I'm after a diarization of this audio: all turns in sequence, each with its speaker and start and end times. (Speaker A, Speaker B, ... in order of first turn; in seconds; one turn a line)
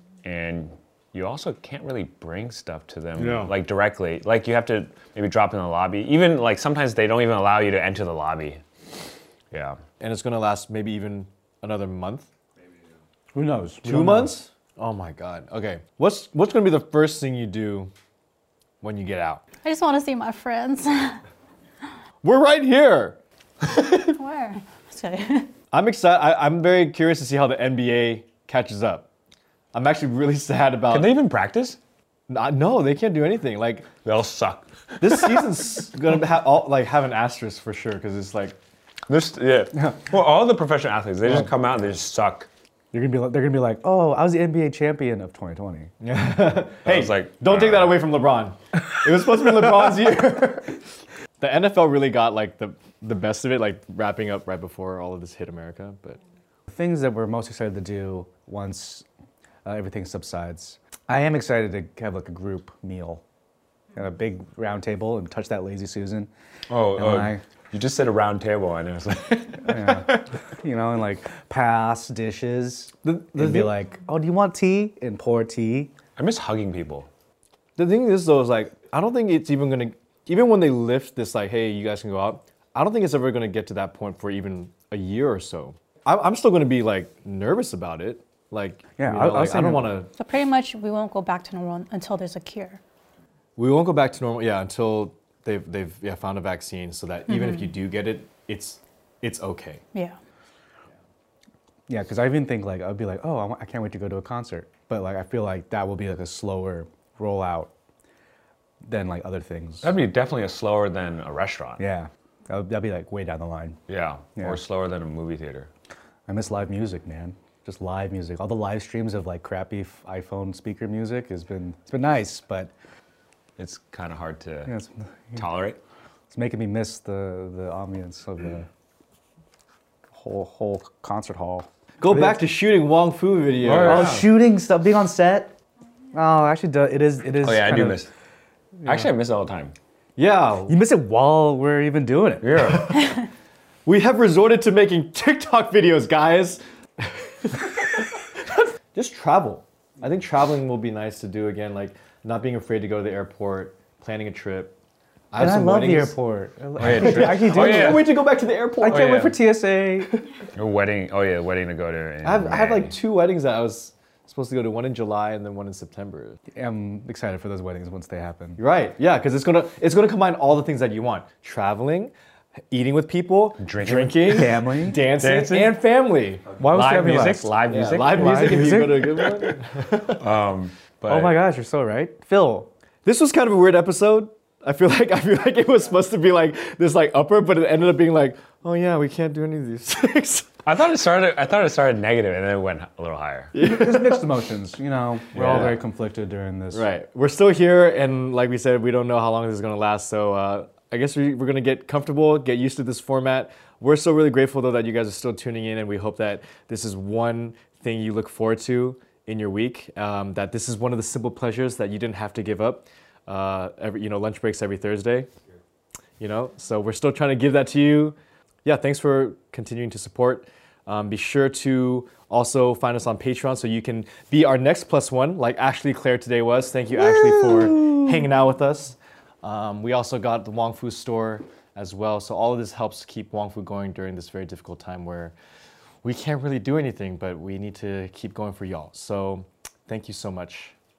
Speaker A: 0.2-8.6
Speaker B: 3.2-3.5
Speaker A: 9.5-9.8
Speaker B: 10.0-12.3
Speaker C: 13.3-14.4
Speaker B: 13.8-17.9
Speaker B: 18.8-19.4
Speaker D: 19.6-21.2
Speaker B: 22.2-23.2
Speaker D: 23.8-25.5
Speaker B: 25.7-29.1
Speaker B: 29.7-31.2
Speaker A: 30.9-31.8
Speaker B: 32.3-33.9
Speaker A: 34.0-35.5
Speaker B: 35.0-38.6
Speaker A: 39.1-42.5
Speaker C: 41.2-41.5
Speaker C: 42.9-45.9
Speaker B: 46.0-50.8
Speaker A: 46.8-48.0
Speaker B: 51.4-56.2
Speaker C: 56.7-59.0
Speaker C: 59.6-63.2
Speaker C: 63.9-66.3
Speaker A: 66.7-70.3
Speaker C: 66.9-67.4
Speaker C: 69.6-75.9
Speaker B: 73.0-73.7
Speaker A: 76.2-77.1
Speaker B: 77.8-90.1
Speaker C: 89.0-90.0
Speaker D: 90.2-92.8
Speaker B: 93.5-99.8
Speaker D: 97.3-97.7
Speaker C: 101.9-107.7
Speaker C: 108.8-109.9
Speaker A: 109.8-111.8
Speaker C: 111.8-113.8
Speaker A: 113.9-115.7
Speaker C: 116.3-122.7
Speaker A: 123.6-124.7
Speaker C: 124.7-125.4
Speaker A: 125.3-125.8
Speaker C: 126.3-128.7
Speaker C: 130.1-132.4
Speaker B: 132.0-134.2
Speaker A: 133.6-134.3
Speaker C: 133.8-135.6
Speaker C: 136.1-138.1
Speaker A: 137.4-138.1
Speaker A: 138.8-139.7
Speaker B: 140.2-140.8
Speaker C: 140.7-142.6
Speaker A: 142.4-142.9
Speaker B: 142.6-143.3
Speaker B: 143.8-154.8
Speaker B: 155.3-156.2
Speaker C: 155.3-158.1
Speaker A: 156.8-158.1
Speaker B: 156.8-160.3
Speaker C: 158.8-160.1
Speaker A: 160.5-163.0
Speaker B: 162.2-166.4
Speaker C: 166.5-168.6
Speaker B: 168.6-172.1
Speaker B: 172.7-176.6
Speaker A: 173.6-174.5
Speaker C: 174.3-175.0
Speaker A: 175.1-175.8
Speaker C: 176.6-177.5
Speaker A: 176.7-178.7
Speaker B: 177.6-180.3
Speaker C: 178.1-179.3
Speaker A: 180.1-181.4
Speaker C: 181.1-182.7
Speaker B: 183.0-190.5
Speaker A: 190.6-193.5
Speaker B: 193.5-194.3
Speaker C: 193.6-196.8
Speaker B: 195.3-195.8
Speaker A: 195.3-195.8
Speaker B: 196.7-215.3
Speaker B: 216.2-235.3
Speaker C: 227.2-228.1
Speaker B: 236.0-240.7